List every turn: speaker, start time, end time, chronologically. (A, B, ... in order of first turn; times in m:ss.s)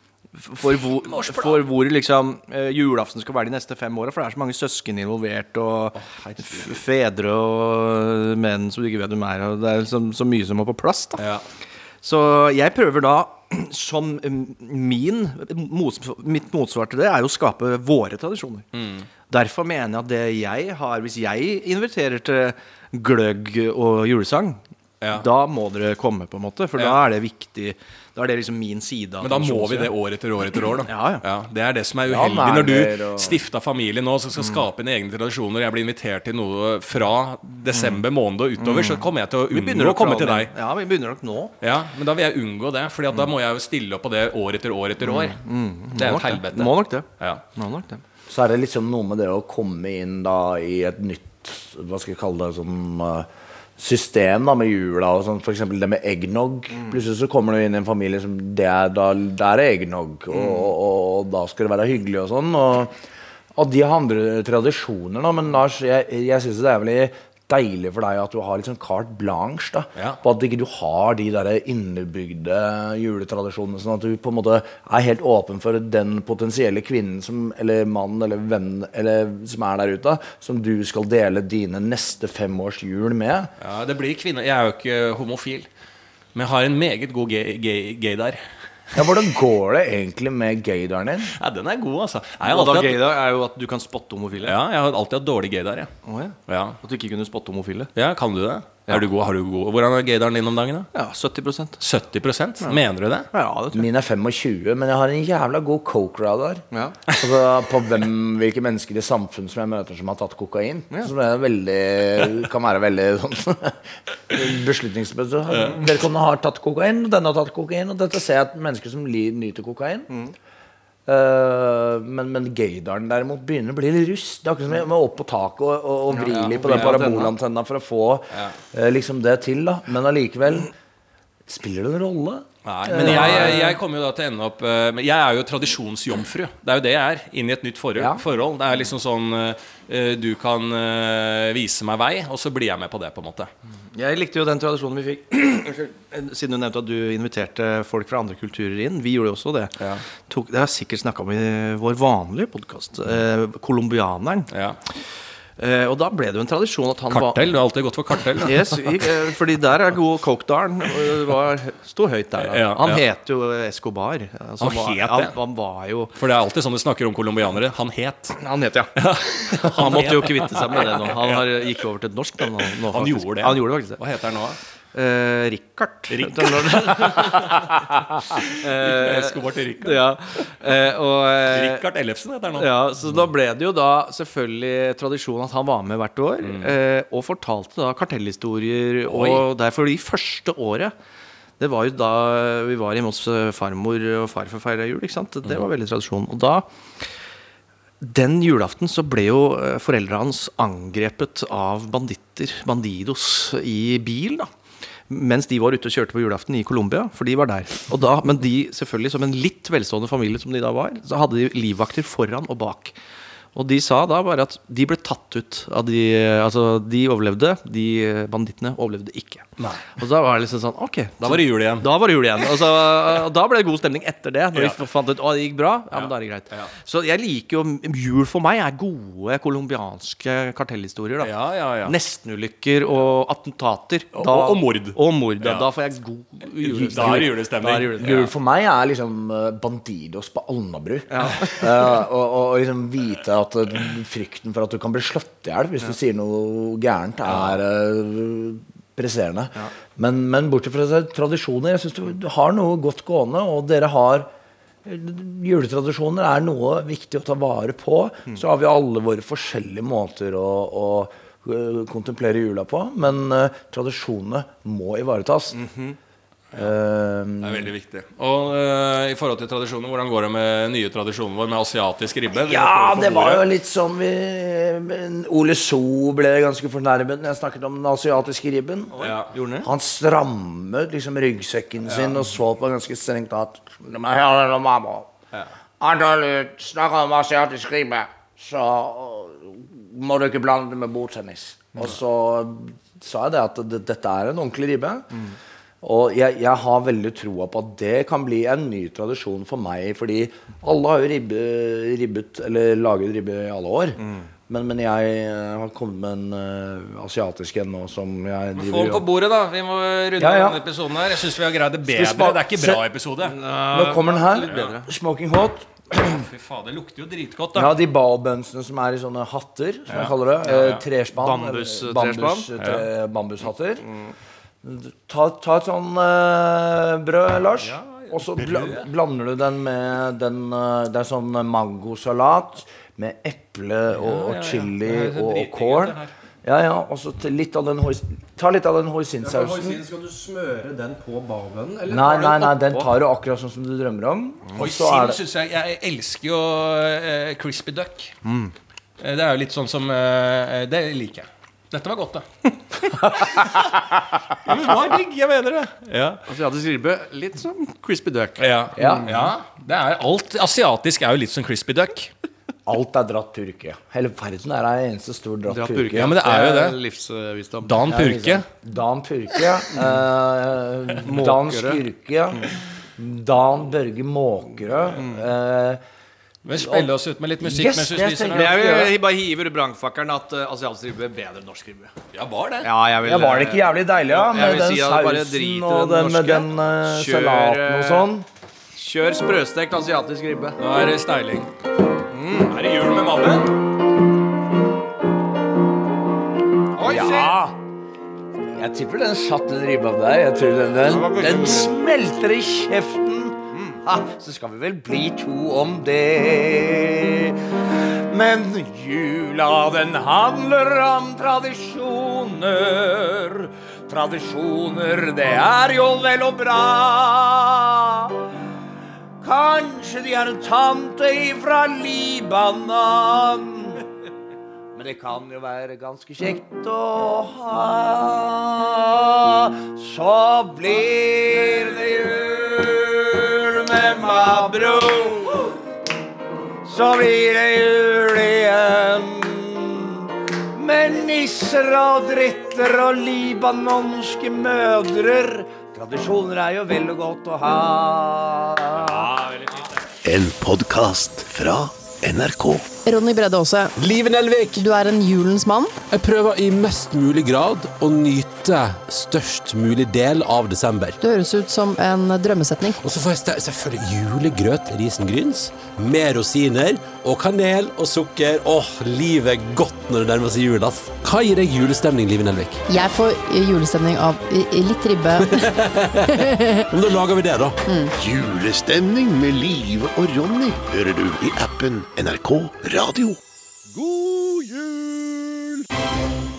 0:00.3-0:11.2 A
0:00.9-0:01.6 B
0:06.0-0:06.8 B
0:11.2-0:11.4 B
0:12.0-0:18.6 A
0:18.7-0:19.1 B
0:19.3-0:24.6 A
0:25.0-0:25.2 B
0:25.1-0:29.9 A
0:29.2-0:40.5 B
0:30.9-0:31.2 A
0:32.0-0:33.4 C
0:37.7-0:38.0 A
0:38.6-0:41.5 A
0:41.6-0:45.4 B
0:45.0-0:48.0 A
0:45.9-0:47.4 B
0:48.3-1:03.0 C
1:03.5-1:23.5 C
1:23.6-1:25.7 B
1:26.3-1:28.4 B
1:28.9-1:31.3 C
1:31.4-1:33.0 B
1:32.4-1:34.6 A
1:34.4-1:35.9 B
1:36.0-1:37.9 A
1:36.5-1:36.8 B
1:37.9-1:40.9 B
1:40.9-1:41.8 A
1:41.8-1:43.3 B
1:43.3-1:43.9 A
1:43.7-2:00.1 C
1:46.7-1:47.0 A
1:55.5-1:55.8 B
2:01.0-2:10.7 C
2:06.1-2:07.3 A
2:06.2-2:07.2 B
2:11.5-2:13.7 C
2:12.6-2:23.5 B
2:13.0-2:13.6 A
2:18.0-2:18.2 C
2:23.9-2:29.8 A
2:30.3-2:35.0 A
2:34.5-2:34.8 B
2:35.6-2:37.6 A
2:37.1-2:39.1 B
2:38.4-2:46.2 A
2:42.4-2:43.0 B
2:44.6-2:45.3 B
2:46.2-2:48.4 B
2:48.4-2:54.0 A
2:49.0-2:51.7 B
2:52.9-2:54.6 B
2:54.9-2:57.8 A
2:56.1-3:00.1 B
2:58.4-3:01.8 A
3:01.5-3:03.2 B
3:02.6-3:10.9 A
3:06.4-3:06.7 B
3:09.1-3:09.4 B
3:11.6-3:16.6 A
3:18.0-3:24.5 A
3:25.1-3:32.9 A
3:33.5-3:51.3 A
3:39.6-3:39.8 B
3:41.2-3:41.9 B
3:44.5-3:44.8 B
3:45.9-3:46.7 B
3:51.2-3:52.0 B
3:51.8-3:58.2 A
3:54.1-3:55.7 B
3:56.6-3:58.3 B
3:56.7-3:57.3 C
3:57.9-4:14.3 C
4:01.1-4:01.6 A
4:07.2-4:07.6 B
4:14.8-4:25.6 C
4:25.5-4:26.0 A
4:26.5-4:27.7 C
4:27.4-4:33.5 B
4:32.3-4:39.1 C
4:39.0-4:39.3 B
4:39.0-4:39.7 A
4:39.6-4:45.1 C
4:41.9-4:42.2 B
4:45.8-4:55.2 C
4:55.8-5:09.0 C
5:04.0-5:04.3 A
5:08.5-5:13.4 B
5:10.2-5:10.6 C
5:11.8-5:12.8 C
5:13.2-5:14.9 A
5:13.7-5:16.2 C
5:14.4-5:14.7 B
5:15.9-5:17.8 B
5:17.5-5:23.8 C
5:19.9-5:20.8 B
5:21.2-5:22.5 A
5:22.6-5:22.8 B
5:23.8-5:24.1 A
5:24.6-5:39.8 C
5:27.6-5:28.9 B
5:33.9-5:36.1 B
5:39.2-5:42.9 A
5:41.9-5:45.2 C
5:44.6-5:48.1 B
5:48.2-5:48.5 A
5:49.0-5:56.2 B
5:56.3-5:59.1 A
5:58.4-6:02.1 B
5:58.8-5:59.1 C
6:02.6-6:06.1 C
6:05.5-6:08.0 A
6:05.9-6:06.8 B
6:07.6-6:08.4 B
6:07.9-6:15.8 C
6:09.7-6:10.0 A
6:11.0-6:11.8 A
6:16.4-6:18.8 B
6:16.5-6:18.9 C
6:18.3-6:21.9 A
6:22.1-6:22.7 B
6:22.6-6:28.1 A
6:23.0-6:28.3 C
6:28.8-6:30.6 A
6:30.6-6:31.5 B
6:32.1-6:32.6 A
6:32.4-6:33.6 B
6:36.8-6:37.4 A
6:36.8-6:37.6 C
6:38.4-6:58.2 C
6:40.9-6:41.7 A
6:59.2-7:03.9 C
7:04.7-7:15.6 C
7:16.6-7:29.1 C
7:28.7-7:29.8 B
7:30.0-7:32.7 D
7:32.8-7:33.8 E
7:33.8-7:34.6 F
7:34.5-7:35.8 E
7:35.8-7:41.0 F
7:41.0-7:42.8 E
7:42.8-7:52.6 F
7:52.7-7:55.4 E
7:55.2-7:57.6 F
7:56.2-7:56.6 E
7:57.6-7:57.9 E
7:58.0-8:03.2 D
8:03.9-8:04.8 F